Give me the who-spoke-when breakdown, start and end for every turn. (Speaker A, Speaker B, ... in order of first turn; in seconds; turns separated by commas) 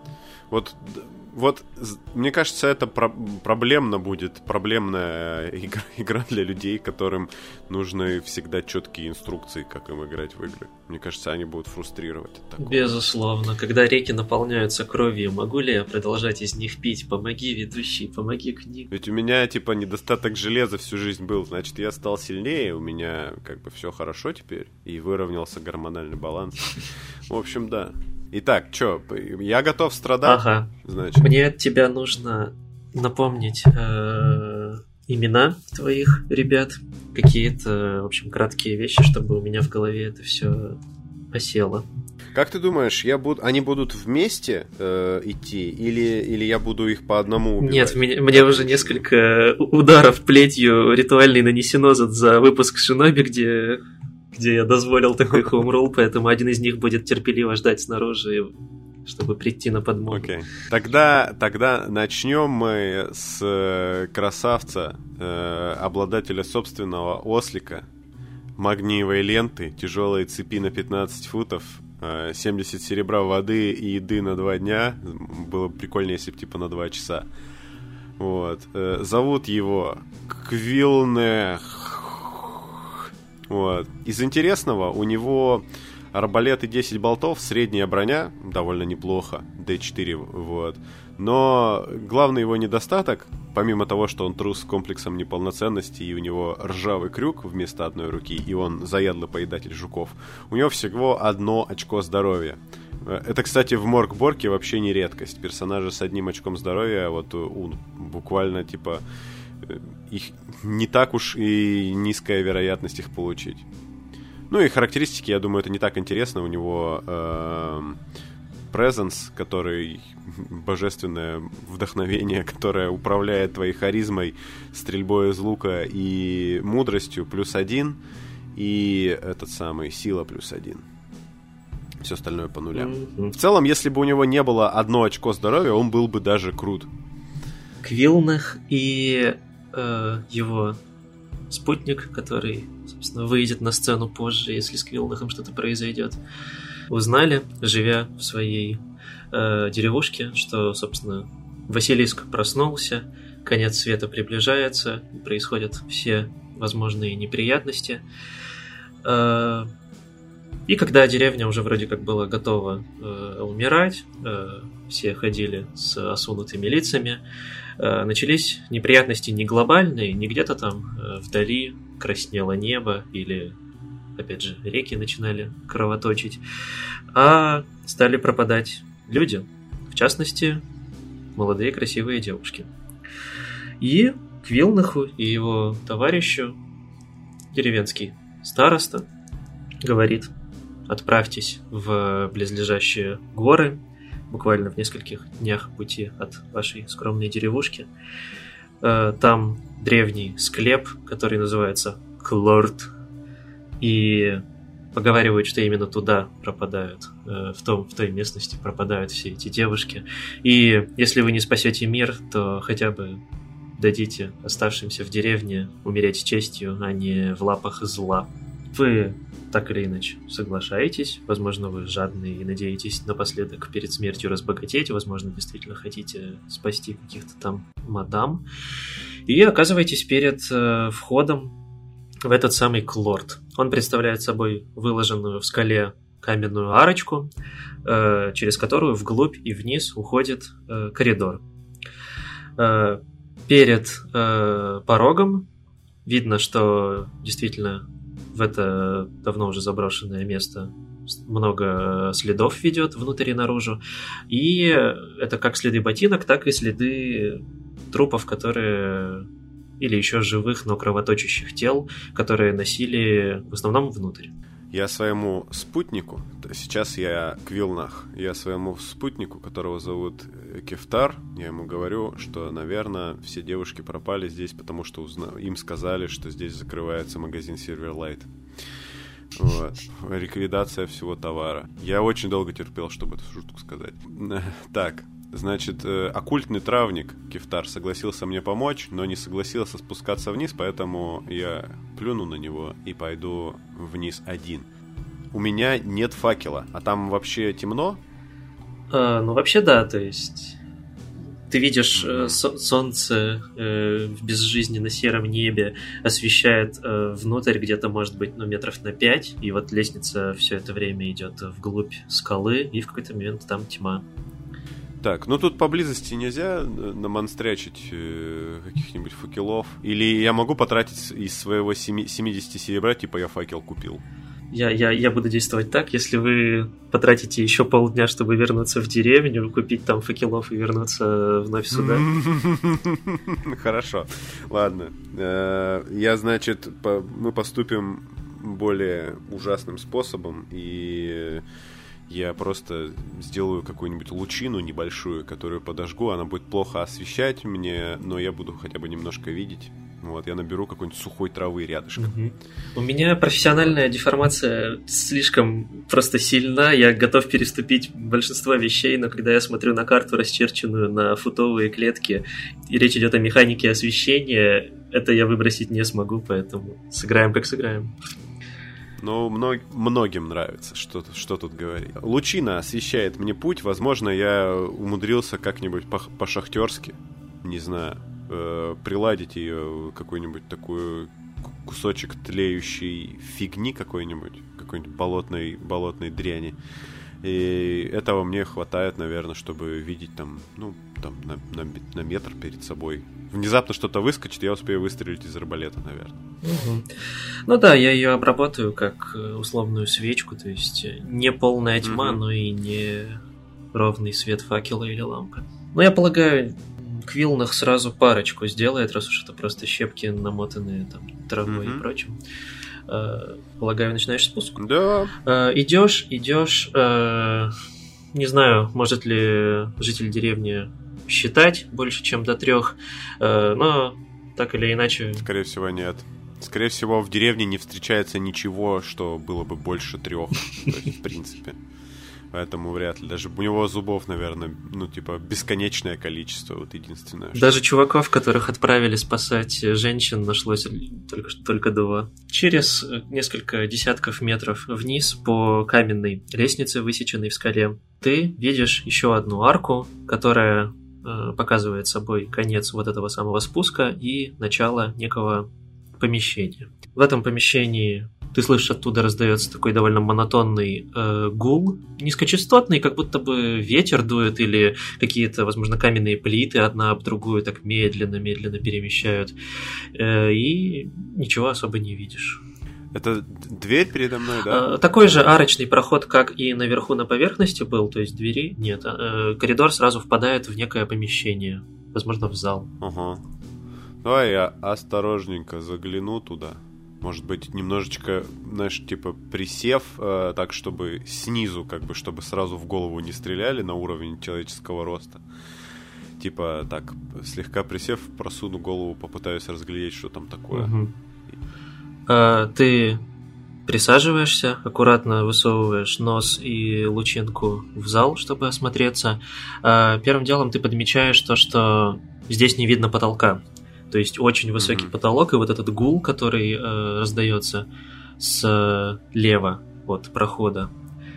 Speaker A: 0.5-13.0, Speaker B: 12.6-18.9, Speaker A: 18.9-31.3, Speaker B: 30.2-40.8, Speaker B: 41.3-41.9, Speaker A: 42.4-49.0, Speaker B: 47.6-60.3, Speaker A: 60.1-67.9, Speaker A: 68.6-77.3, Speaker A: 78.2-109.0, Speaker A: 109.6-113.7, Speaker A: 114.5-118.0, Speaker A: 118.7-128.0, Speaker A: 128.6-130.8, Speaker A: 132.0-136.9, Speaker B: 132.7-133.3, Speaker B: 137.8-140.8, Speaker B: 141.5-146.2, Speaker B: 146.9-158.1, Speaker B: 159.0-159.7, Speaker B: 160.7-167.2, Speaker B: 167.8-173.6, Speaker B: 174.2-176.4, Speaker B: 177.1-180.6, Speaker B: 181.4-182.7, Speaker B: 183.8-186.6, Speaker B: 187.5-189.1, Speaker B: 189.8-190.3, Speaker B: 190.9-197.9, Speaker B: 198.8-202.9, Speaker B: 203.8-204.4, Speaker B: 204.9-213.2, Speaker B: 213.8-228.4, Speaker B: 229.3-231.6, Speaker B: 232.2-237.3, Speaker B: 237.8-241.4, Speaker B: 242.6-245.5, Speaker B: 246.1-259.3, Speaker B: 259.8-264.3, Speaker A: 264.7-278.3, Speaker A: 279.4-294.7, Speaker A: 295.3-298.0, Speaker B: 298.9-300.6, Speaker B: 301.5-314.1, Speaker A: 301.9-302.4, Speaker A: 315.0-324.0, Speaker B: 324.5-332.1, Speaker A: 331.7-341.4, Speaker A: 342.1-352.1, Speaker B: 352.0-367.9, Speaker A: 369.0-386.6, Speaker A: 387.2-396.2, Speaker B: 396.4-396.9, Speaker B: 397.5-403.2, Speaker A: 401.8-402.2, Speaker B: 403.7-412.2, Speaker A: 411.4-411.9, Speaker B: 412.9-414.6, Speaker A: 414.6-415.1, Speaker B: 415.2-417.5, Speaker B: 418.1-425.2, Speaker A: 425.2-431.6, Speaker A: 432.3-437.6, Speaker B: 437.4-469.3, Speaker B: 469.9-472.4, Speaker A: 472.9-475.3, Speaker B: 474.5-482.7, Speaker A: 482.8-483.2, Speaker A: 484.0-495.2, Speaker A: 496.2-500.7, Speaker B: 500.5-500.9, Speaker B: 502.1-503.0, Speaker B: 503.7-517.7, Speaker A: 514.6-514.9, Speaker B: 518.2-520.7